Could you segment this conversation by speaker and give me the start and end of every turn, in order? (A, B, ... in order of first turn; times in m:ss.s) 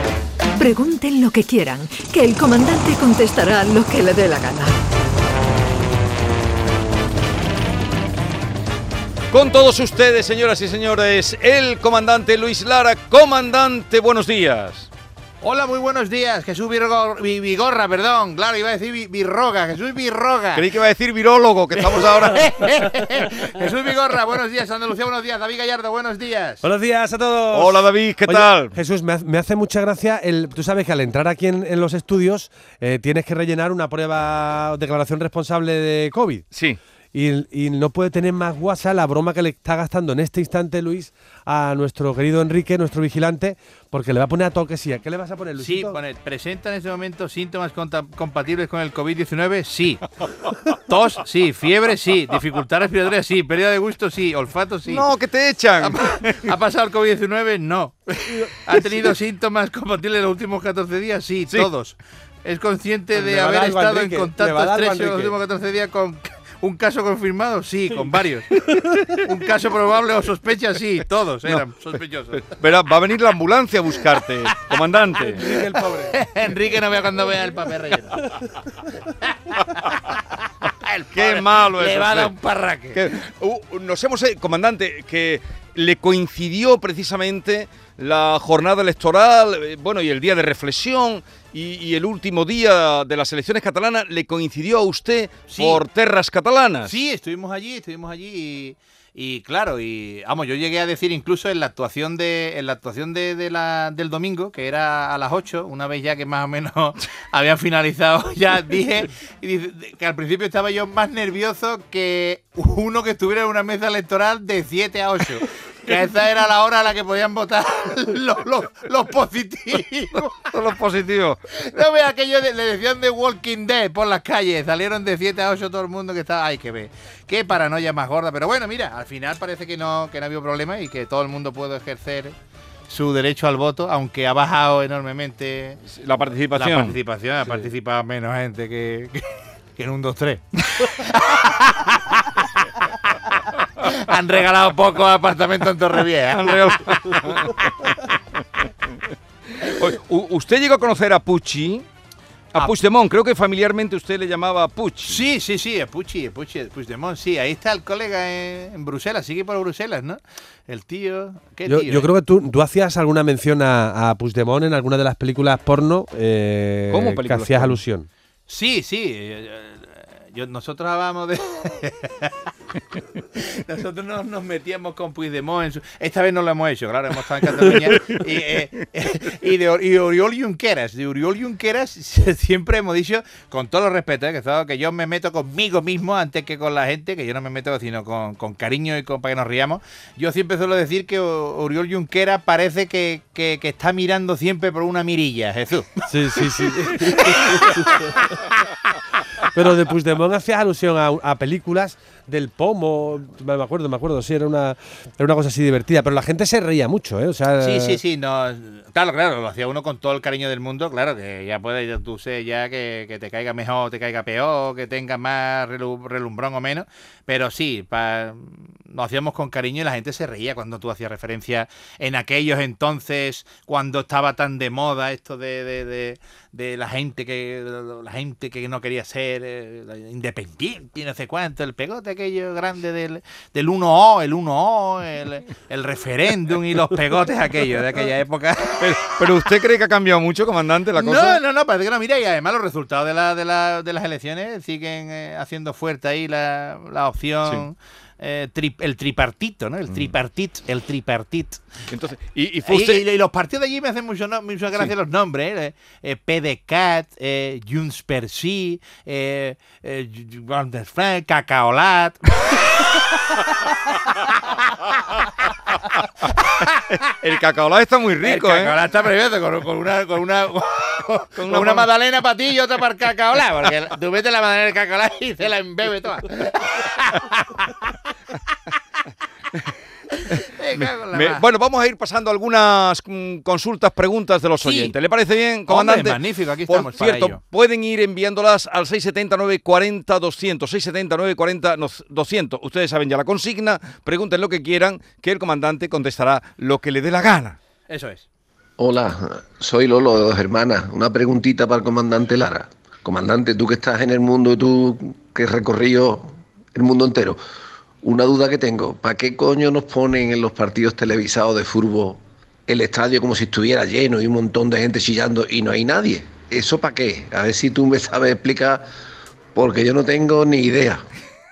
0:00.6-0:04.8 A
0:09.3-0:14.9 B
0:15.4-0:20.6 C
0:20.6-0:22.7 B
0:21.8-0:26.6 C
0:26.6-0:36.5 D
0:27.5-0:28.8 B
0:36.5-0:36.8 B
0:37.1-0:46.0 D
0:45.6-0:50.0 C
0:50.9-0:55.1 C
0:54.9-0:56.3 B
0:55.8-1:08.5 C
0:58.3-0:58.7 D
1:03.1-1:05.4 D
1:08.7-1:09.0 D
1:09.2-1:12.4 C
1:12.3-1:15.5 B
1:15.2-1:16.2 D
1:16.1-1:18.3 C
1:20.8-1:23.0 C
1:21.1-1:22.3 B
1:23.0-1:37.0 B
1:35.5-1:35.8 C
1:36.8-2:00.5 C
2:00.5-2:01.4 B
2:01.6-2:12.3 C
2:12.9-2:15.8 C
2:15.9-2:17.0 B
2:16.6-2:19.2 C
2:19.8-2:22.4 C
2:23.8-2:27.7 C
2:26.3-2:27.7 B
2:29.6-2:31.9 B
2:32.5-2:35.2 B
2:35.1-2:42.1 C
2:41.7-2:48.1 D
2:46.9-2:47.8 B
2:48.5-2:52.3 C
2:53.4-3:16.0 C
3:16.1-3:18.2 D
3:17.2-3:17.8 C
3:19.4-3:28.0 D
3:27.6-3:59.2 C
3:58.8-4:01.4 B
4:01.0-4:11.6 C
4:11.9-4:13.0 B
4:12.7-4:23.0 C
4:24.3-4:24.7 C
4:26.4-4:26.8 C
4:27.2-4:28.8 B
4:28.2-4:37.9 C
4:31.4-4:31.9 B
4:40.2-4:41.4 C
4:40.8-4:57.6 B
4:44.6-4:44.9 C
4:45.7-4:47.4 C
4:57.9-4:58.2 C
4:58.8-5:07.4 E
5:08.0-5:18.8 E
5:19.6-5:21.0 E